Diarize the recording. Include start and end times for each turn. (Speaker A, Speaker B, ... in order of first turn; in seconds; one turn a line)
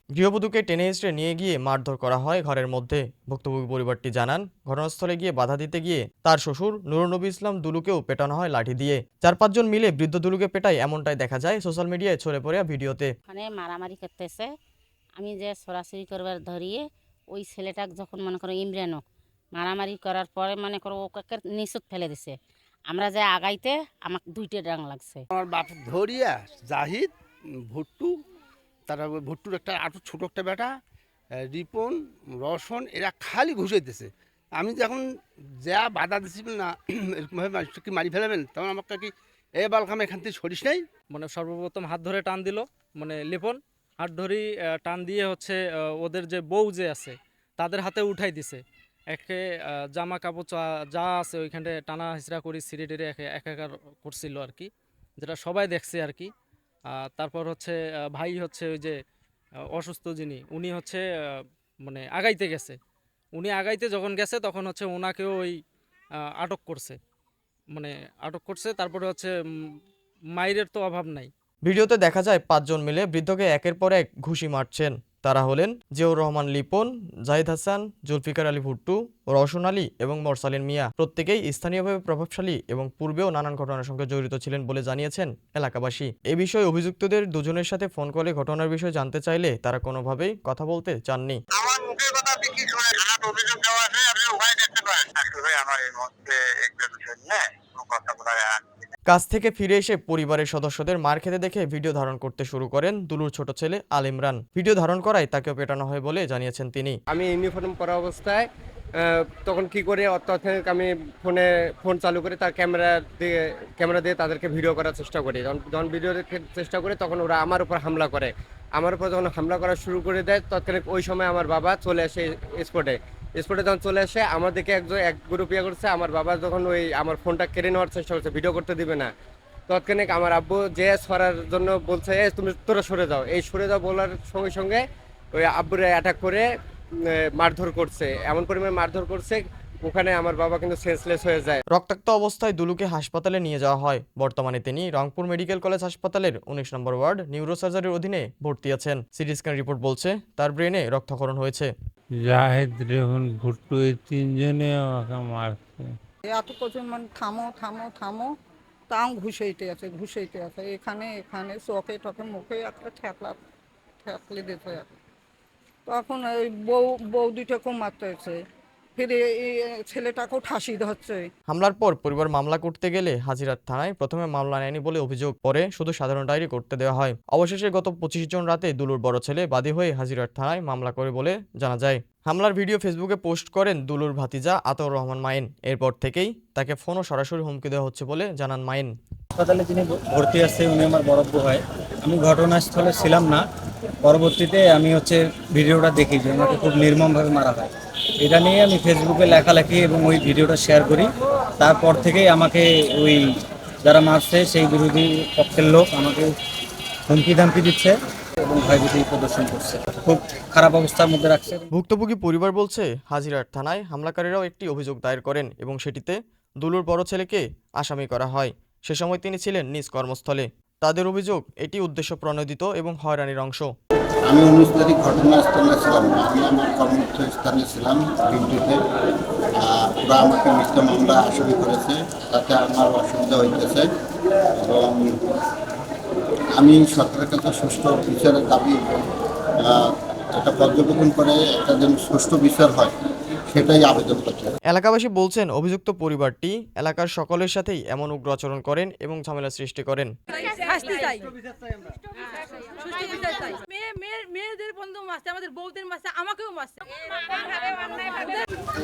Speaker A: 0.2-13.1
Speaker B: 13.3-14.5
Speaker B: 15.2-19.0
Speaker B: 19.5-22.3
Speaker B: 22.9-25.2
Speaker C: 25.3-27.1
Speaker C: 27.7-28.1
Speaker C: 28.9-30.7
Speaker C: 31.5-35.0
Speaker C: 35.6-40.8
Speaker D: 41.1-56.3
Speaker D: 56.9-58.9
Speaker D: 59.7-62.8
Speaker D: 63.3-65.5
Speaker D: 66.4-67.0
Speaker D: 67.7-69.3
Speaker D: 70.3-71.3
Speaker A: 71.7-91.4
Speaker E: 91.5-98.6
Speaker A: 99.1-107.0
Speaker F: 107.1-108.4
Speaker F: 109.0-129.1
Speaker F: 129.7-134.8
Speaker F: 135.3-136.4
Speaker F: 137.1-141.6
Speaker A: 141.7-151.7
Speaker G: 152.1-155.9
Speaker H: 156.2-158.3
Speaker H: 158.9-163.4
Speaker H: 164.0-164.9
Speaker H: 165.9-168.4
Speaker H: 169.0-171.2
Speaker A: 171.5-188.9
Speaker I: 189.3-193.4
Speaker I: 194.0-201.1
Speaker I: 201.6-203.2
Speaker I: 203.8-206.3
Speaker I: 207.1-211.5
Speaker A: 211.7-223.7
Speaker J: 224.3-228.8
Speaker J: 229.6-233.9
Speaker J: 234.6-235.0
Speaker J: 236.6-238.8
Speaker J: 240.3-242.9
Speaker J: 243.5-244.5
Speaker A: 244.7-250.1
Speaker K: 250.5-251.3
Speaker K: 252.6-258.4